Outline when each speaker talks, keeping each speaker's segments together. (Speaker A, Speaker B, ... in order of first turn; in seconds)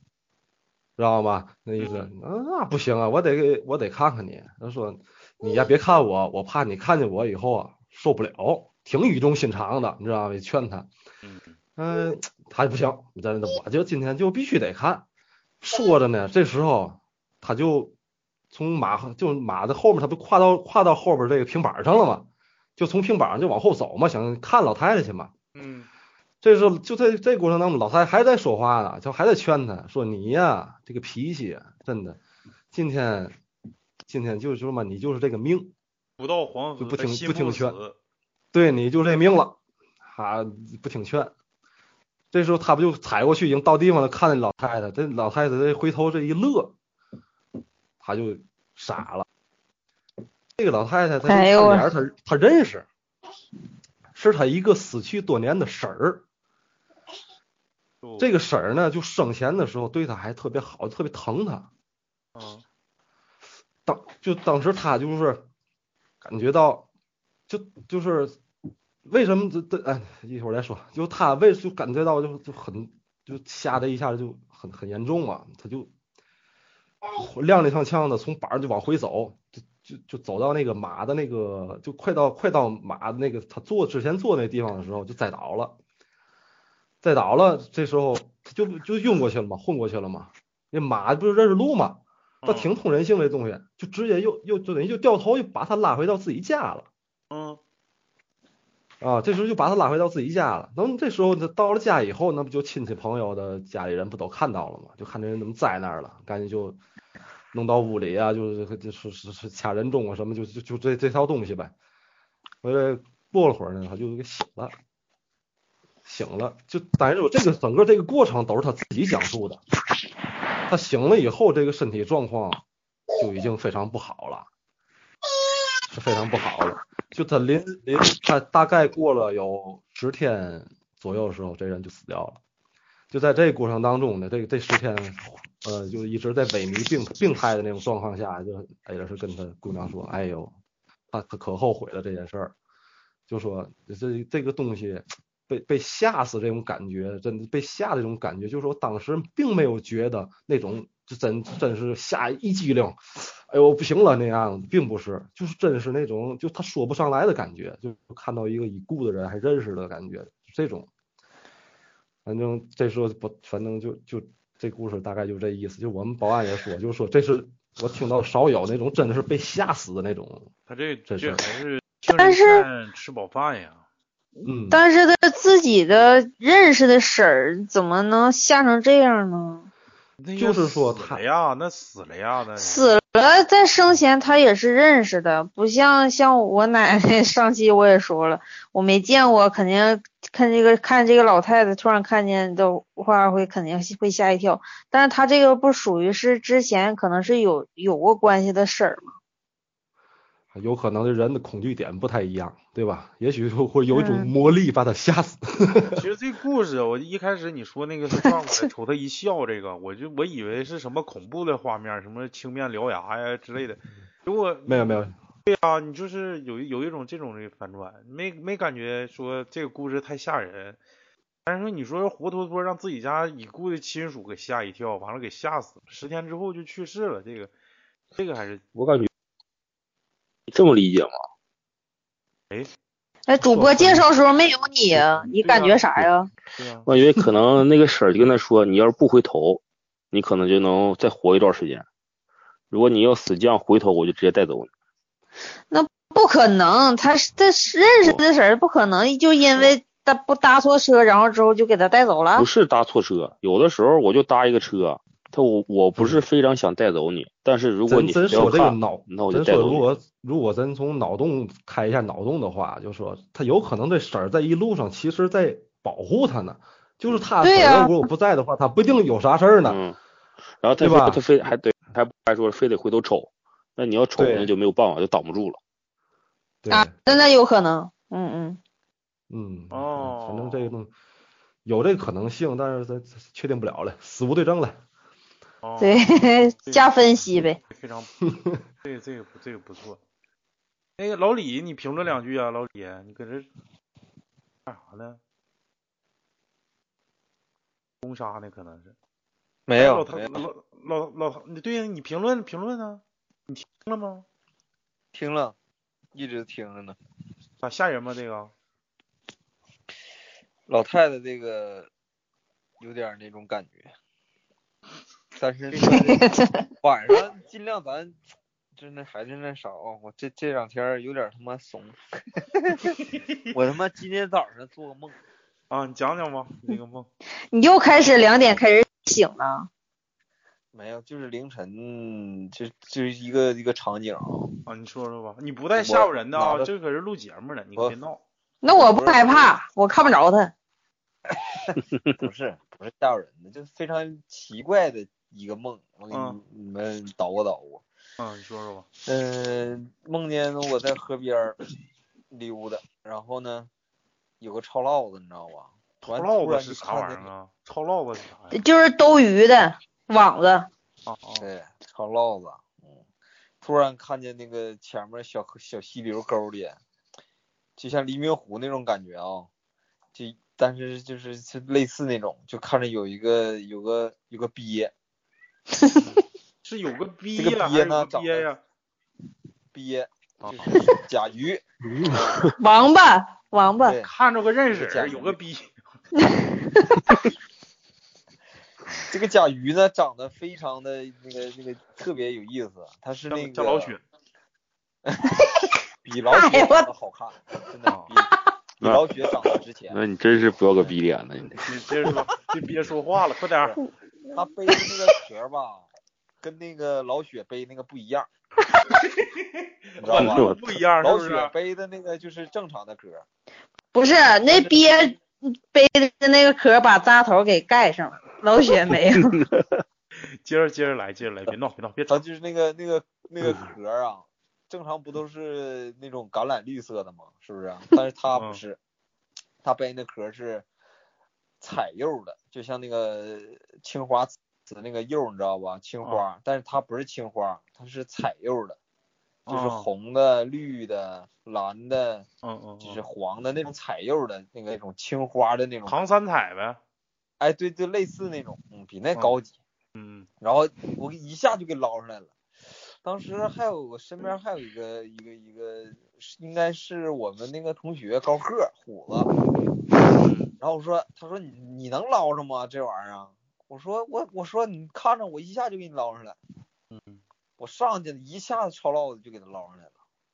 Speaker A: 1.0-10.9, 11.8-15.0, 15.6-17.9, 18.5-25.3, 26.4-32.2, 32.7-33.4, 34.0-35.7, 36.8-37.8, 38.5-41.3, 42.3-46.7, 48.0-49.2, 50.6-52.9, 54.1-56.2, 58.2-61.7, 63.9-65.4, 66.2-66.9, 67.5-68.4, 69.0-75.9, 77.1-85.8, 87.0-96.9, 99.0-106.8, 107.5-111.7, 112.6-114.8, 116.0-119.6, 120.7-122.6, 123.2-124.5, 125.9-132.4, 133.1-140.5, 141.1-142.5, 143.3-160.9, 162.2-170.5, 171.1-171.4, 174.4-174.8, 180.4-181.2, 200.5-206.0, 214.7-215.1, 233.6-233.9, 256.0-256.2, 257.9-269.8, 270.8-271.2, 274.2-274.5, 276.6-276.9, 279.3-280.9, 281.6-284.8
Speaker B: 1.8-2.1, 11.2-11.6, 25.5-25.9, 36.2-38.0, 58.0-58.3, 62.3-62.6, 92.4-92.7, 97.3-97.6, 170.7-173.8, 180.2-182.9, 205.9-220.8, 221.4-227.5, 228.1-228.6, 235.4-235.8, 236.5-236.9, 279.7-280.7, 285.6-286.9, 287.6-288.1, 288.8-290.0, 291.0-293.5, 294.6-295.2, 298.0-298.9, 299.7-304.2, 307.6-308.5, 315.7-316.1, 325.7-327.1, 334.6-338.2, 346.1-346.4, 348.2-348.9, 356.0-358.6, 361.1-361.5, 375.9-378.6, 380.4-380.7, 384.0-385.9, 393.3-394.0, 401.6-403.8, 410.0-411.5, 420.4-422.2, 428.3-428.6, 439.5-439.9, 442.4-443.0, 445.9-446.8, 449.9-450.3, 460.2-460.5, 466.9-467.2
Speaker C: 51.3-51.9, 172.1-172.7, 174.7-179.7, 182.6-199.1, 203.9-204.3, 233.3-236.3, 245.7-252.4, 267.4-268.0, 276.7-278.6, 285.8-287.6, 315.9-316.6, 327.5-329.7, 338.6-340.5, 358.5-360.7, 382.6-384.0, 386.2-387.0, 396.3-396.9, 413.9-415.2, 415.7-419.4
Speaker D: 228.7-229.1, 230.5-231.1, 236.8-241.8, 242.7-244.7, 252.3-259.8, 269.6-270.0, 270.6-275.6, 381.9-382.5, 399.9-402.1, 410.1-410.6, 419.2-419.6, 423.4-423.7
Speaker E: 299.7-300.4, 305.1-305.5, 306.1-307.0, 310.7-311.9, 312.8-313.9, 315.4-316.2, 316.8-318.2, 318.8-323.0, 323.5-325.2, 330.7-334.5, 335.8-336.7, 338.7-339.5, 342.2-347.8, 349.1-351.6, 352.3-353.7, 354.4-357.3, 361.4-363.0, 363.6-366.8, 367.8-369.5, 370.1-374.9, 377.4-378.5, 379.7-382.4, 383.8-384.1, 384.7-385.4, 389.1-393.9, 396.0-400.0, 404.3-405.9, 406.4-408.3, 410.0-413.2, 422.1-428.8, 429.6-430.6, 431.6-438.8, 439.5-442.3, 442.8-446.0, 447.4-449.6, 450.4-452.3, 453.0-459.3, 460.6-466.4, 467.6-469.9